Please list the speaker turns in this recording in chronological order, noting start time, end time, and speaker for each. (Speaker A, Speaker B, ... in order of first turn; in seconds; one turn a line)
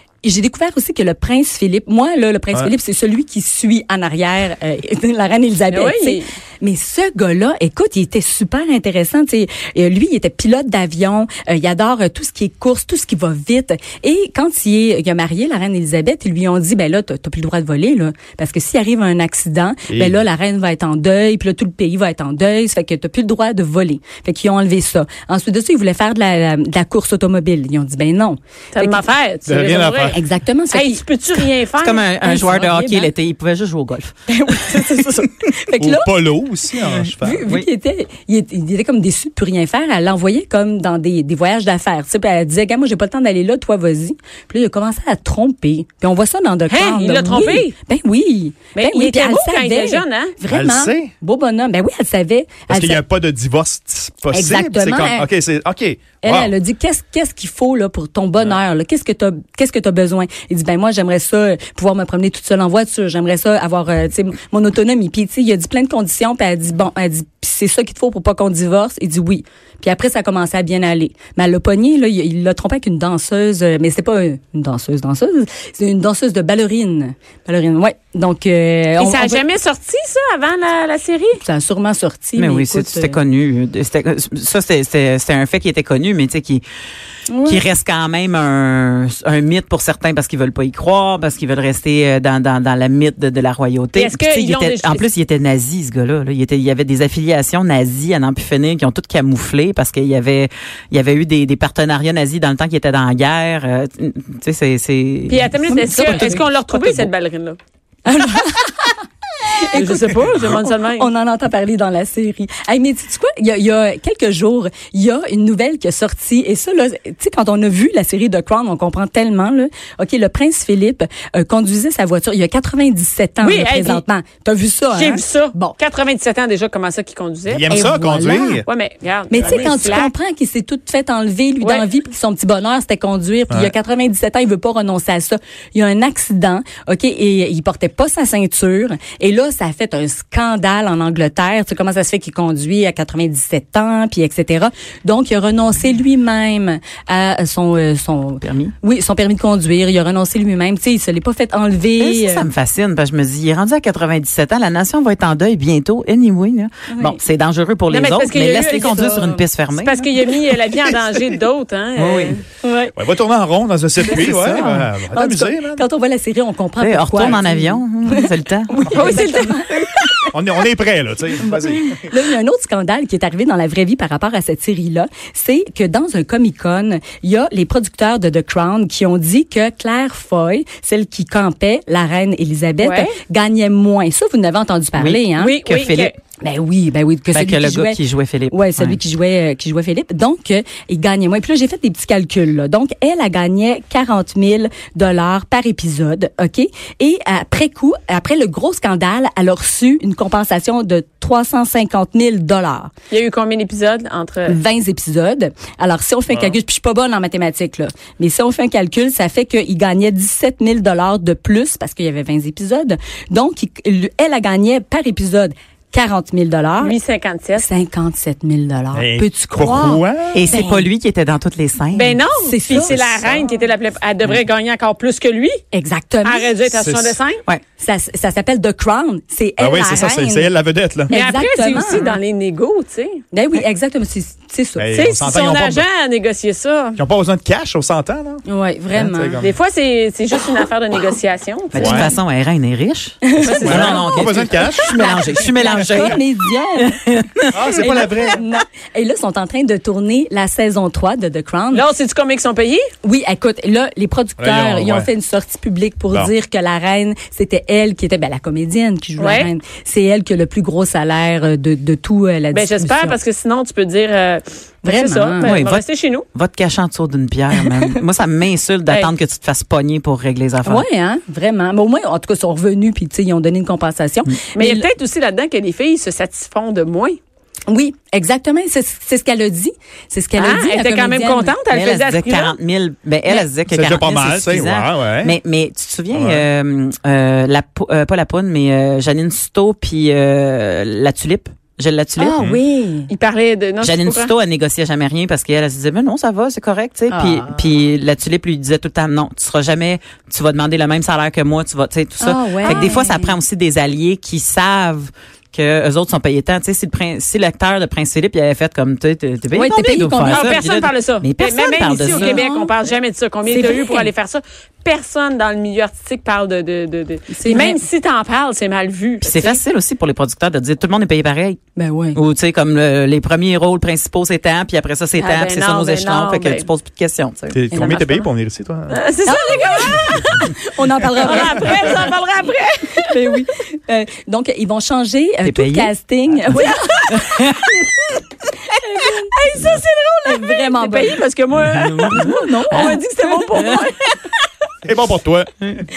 Speaker A: 0.2-29.1
Speaker B: 5.7-6.3
Speaker C: 19.9-20.2
Speaker B: 28.7-30.1
Speaker C: 29.4-30.2
Speaker A: 30.1-31.0
Speaker B: 30.7-32.0
Speaker D: 31.8-34.9
Speaker A: 32.2-33.1
Speaker A: 34.3-36.1
Speaker C: 35.8-37.5
Speaker D: 36.8-37.7
Speaker A: 37.1-53.0
Speaker B: 46.7-47.7
Speaker B: 48.7-50.3
Speaker C: 50.5-51.1
Speaker C: 52.7-56.5
Speaker A: 54.3-55.3
Speaker A: 56.2-79.4
Speaker B: 79.0-81.4
Speaker A: 81.4-83.2
Speaker D: 82.3-86.6
Speaker A: 87.3-87.6
Speaker D: 87.4-105.5
Speaker B: 93.9-95.1
Speaker B: 105.3-107.6
Speaker A: 105.7-106.4
Speaker D: 106.0-107.1
Speaker A: 108.0-125.8
Speaker B: 109.7-111.1
Speaker B: 123.4-124.0
Speaker B: 124.9-127.9
Speaker C: 127.5-128.6
Speaker A: 127.7-128.6
Speaker B: 128.6-130.1
Speaker A: 129.3-152.5
Speaker C: 129.4-129.9
Speaker B: 131.6-131.9
Speaker D: 148.4-148.7
Speaker D: 152.0-160.0
Speaker A: 156.9-157.2
Speaker B: 157.9-159.0
Speaker A: 158.3-159.4
Speaker B: 159.7-162.4
Speaker D: 162.0-162.4
Speaker A: 162.6-162.9
Speaker C: 162.9-165.8
Speaker A: 164.0-169.9
Speaker D: 164.1-164.7
Speaker D: 166.8-168.7
Speaker B: 168.9-169.6
Speaker C: 170.3-172.1
Speaker A: 171.4-185.6
Speaker B: 182.8-183.2
Speaker D: 185.0-186.1
Speaker B: 185.3-186.1
Speaker A: 186.4-188.0
Speaker D: 187.3-189.0
Speaker A: 188.5-202.9
Speaker B: 203.1-204.6
Speaker A: 204.4-217.0
Speaker C: 206.3-206.6
Speaker B: 216.8-217.7
Speaker A: 217.6-220.9
Speaker C: 218.9-220.4
Speaker D: 220.3-222.2
Speaker B: 221.9-225.6
Speaker A: 222.4-223.0
Speaker C: 222.7-223.4
Speaker A: 225.7-226.5
Speaker B: 226.2-227.4
Speaker C: 226.7-227.2
Speaker A: 227.8-230.5
Speaker C: 229.6-231.1
Speaker A: 231.1-232.2
Speaker B: 231.1-233.2
Speaker A: 233.3-235.5
Speaker C: 234.8-235.8
Speaker B: 234.9-237.0
Speaker C: 236.9-239.6
Speaker A: 238.5-239.4
Speaker B: 239.4-242.1
Speaker D: 241.7-248.1
Speaker C: 241.7-242.1
Speaker A: 243.3-246.9
Speaker B: 243.4-244.3
Speaker C: 243.6-244.9
Speaker C: 245.8-246.1
Speaker C: 247.5-248.4
Speaker A: 247.6-251.9
Speaker B: 251.7-252.8
Speaker A: 253.0-263.2
Speaker C: 254.4-255.1
Speaker B: 259.2-259.5
Speaker B: 262.5-266.2
Speaker A: 264.8-265.5
Speaker D: 265.4-270.8
Speaker A: 270.6-274.9
Speaker B: 274.5-277.2
Speaker A: 277.7-281.6
Speaker B: 280.4-282.6
Speaker D: 281.7-292.4
Speaker C: 283.7-285.4
Speaker C: 286.1-286.5
Speaker A: 292.2-293.1
Speaker B: 293.1-294.3
Speaker D: 293.8-312.4
Speaker A: 297.1-297.5
Speaker A: 302.2-303.4
Speaker B: 302.6-302.9
Speaker A: 309.5-310.6
Speaker B: 310.2-319.6
Speaker A: 312.0-312.7
Speaker A: 313.4-314.1
Speaker A: 317.3-317.8
Speaker D: 319.2-321.6
Speaker A: 321.8-322.2
Speaker D: 322.1-328.0
Speaker B: 325.2-326.6
Speaker C: 327.5-329.0
Speaker A: 327.8-328.2
Speaker B: 328.9-330.2
Speaker A: 329.2-332.1
Speaker B: 331.2-333.2
Speaker A: 333.0-337.2
Speaker D: 335.4-335.9
Speaker D: 336.5-337.7
Speaker A: 338.8-339.3
Speaker B: 339.1-344.1
Speaker A: 340.2-341.2
Speaker D: 341.6-342.9
Speaker A: 342.0-343.0
Speaker C: 344.8-345.7